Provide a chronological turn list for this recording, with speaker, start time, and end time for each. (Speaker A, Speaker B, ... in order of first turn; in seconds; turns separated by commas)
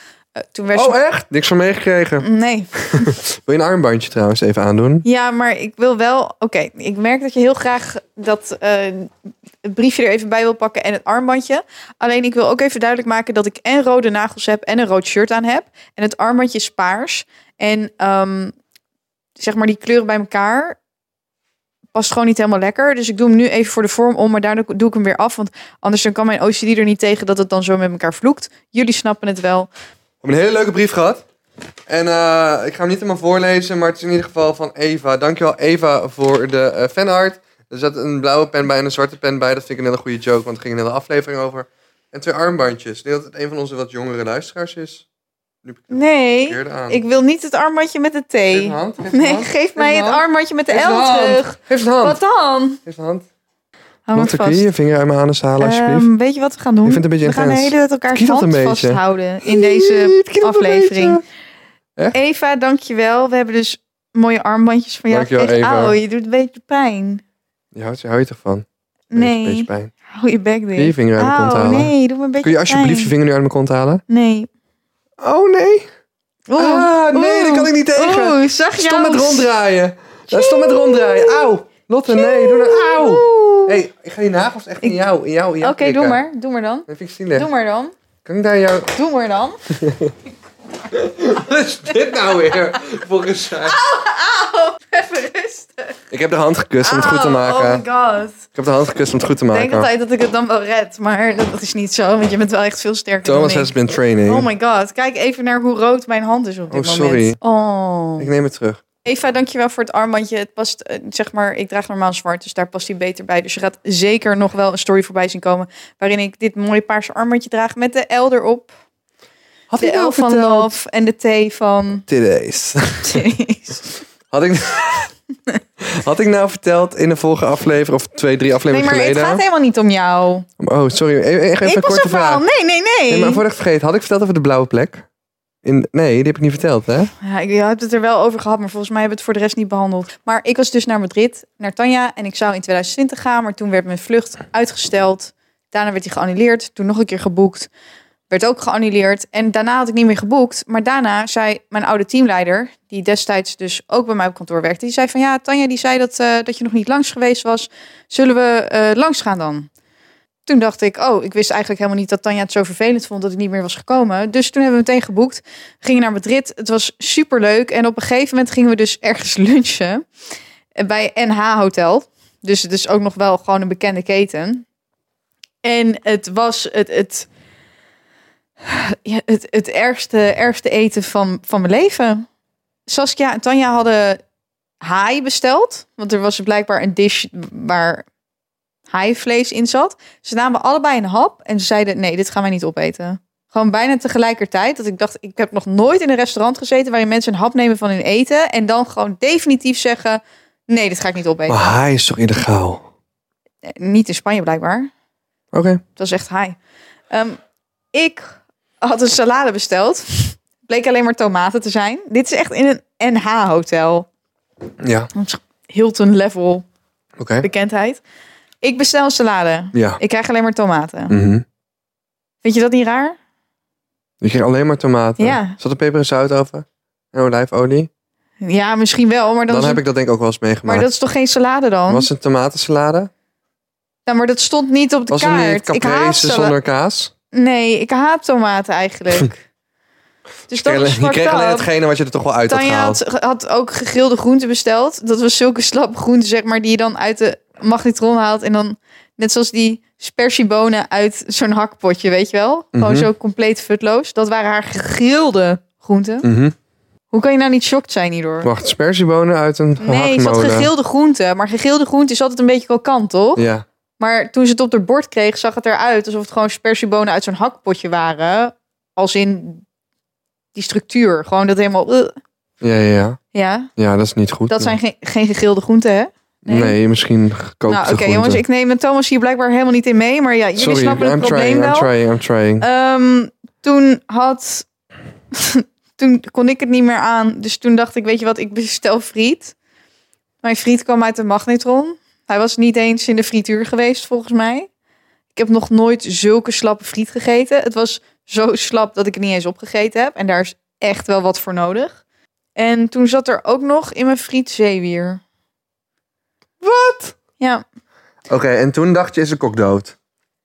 Speaker A: 0.4-0.9, Speaker B: 0.7-2.3, Speaker A: 2.2-3.1, Speaker B: 2.9-5.0, Speaker A: 5.0-9.1, Speaker A: 9.6-18.5, Speaker A: 19.4-20.8, Speaker A: 21.9-29.7, Speaker B: 30.2-31.2, Speaker B: 31.9-45.0, Speaker B: 45.6-47.0, Speaker A: 45.9-52.8, Speaker B: 48.5-52.2, Speaker B: 52.8-53.2, Speaker A: 54.1-54.7, Speaker B: 54.1-56.1, Speaker A: 55.6-61.2, Speaker B: 56.8-61.2, Speaker A: 62.1-67.2, Speaker B: 65.1-66.0, Speaker B: 67.7-69.9, Speaker A: 69.1-73.1, Speaker B: 70.8-74.0, Speaker A: 74.1-74.5, Speaker B: 75.2-75.8, Speaker A: 76.5-79.5, Speaker B: 76.6-86.2, Speaker A: 80.3-81.5, Speaker A: 82.1-83.8, Speaker A: 85.6-87.9, Speaker B: 86.9-87.5, Speaker B: 88.2-88.9, Speaker A: 88.9-89.6, Speaker B: 89.7-90.1, Speaker B: 90.9-93.8, Speaker A: 93.7-95.9, Speaker B: 96.1-97.8, Speaker A: 96.8-98.4, Speaker B: 98.5-99.9, Speaker A: 99.5-103.7, Speaker B: 103.2-104.5, Speaker A: 104.3-108.3, Speaker B: 106.7-107.4, Speaker B: 108.2-108.8, Speaker A: 109.0-118.7, Speaker B: 119.7-120.7, Speaker A: 119.8-122.0, Speaker B: 122.1-123.2, Speaker A: 123.0-124.0, Speaker B: 124.3-125.1, Speaker B: 125.8-129.4, Speaker A: 128.7-130.4, Speaker B: 130.6-132.4, Speaker A: 131.6-133.4, Speaker B: 133.1-135.1, Speaker B: 135.6-137.1, Speaker A: 137.2-147.7, Speaker A: 148.3-159.7, Speaker A: 160.5-170.0, Speaker A: 170.8-174.6, Speaker A: 175.6-177.3, Speaker A: 178.6-182.3, Speaker A: 182.9-184.2, Speaker A: 184.8-188.1, Speaker A: 188.9-201.6, Speaker B: 201.5-202.8, Speaker A: 203.7-204.9, Speaker B: 205.5-205.8, Speaker A: 205.9-206.6, Speaker A: 207.1-207.4, Speaker A: 207.9-214.1, Speaker B: 214.8-215.1, Speaker A: 215.1-216.6, Speaker B: 217.2-217.5, Speaker A: 217.4-218.0, Speaker A: 218.6-221.1, Speaker B: 219.7-220.0, Speaker B: 221.1-221.4, Speaker A: 222.4-223.2, Speaker B: 224.2-227.9, Speaker A: 225.2-225.6, Speaker A: 228.4-229.8, Speaker B: 229.5-230.9, Speaker A: 230.6-232.1, Speaker B: 231.9-233.1, Speaker A: 234.1-236.5, Speaker B: 235.1-237.1, Speaker A: 237.3-239.4, Speaker A: 240.5-241.7, Speaker B: 240.5-243.0, Speaker A: 242.5-256.2, Speaker B: 252.7-253.1, Speaker B: 256.2-256.5, Speaker A: 257.1-258.5, Speaker B: 258.4-260.7, Speaker A: 259.8-263.4, Speaker B: 263.4-263.6, Speaker A: 264.0-269.6, Speaker A: 270.5-272.1, Speaker B: 272.6-273.2, Speaker A: 273.3-273.7, Speaker B: 273.8-274.8, Speaker A: 274.5-276.8, Speaker B: 276.5-278.4, Speaker A: 277.7-281.9, Speaker B: 280.6-282.6, Speaker A: 282.6-284.7, Speaker A: 285.3-289.5, Speaker A: 290.4-294.7, Speaker A: 295.3-302.0, Speaker A: 302.6-305.2, Speaker B: 306.6-307.1, Speaker A: 307.4-307.6, Speaker B: 308.3-309.9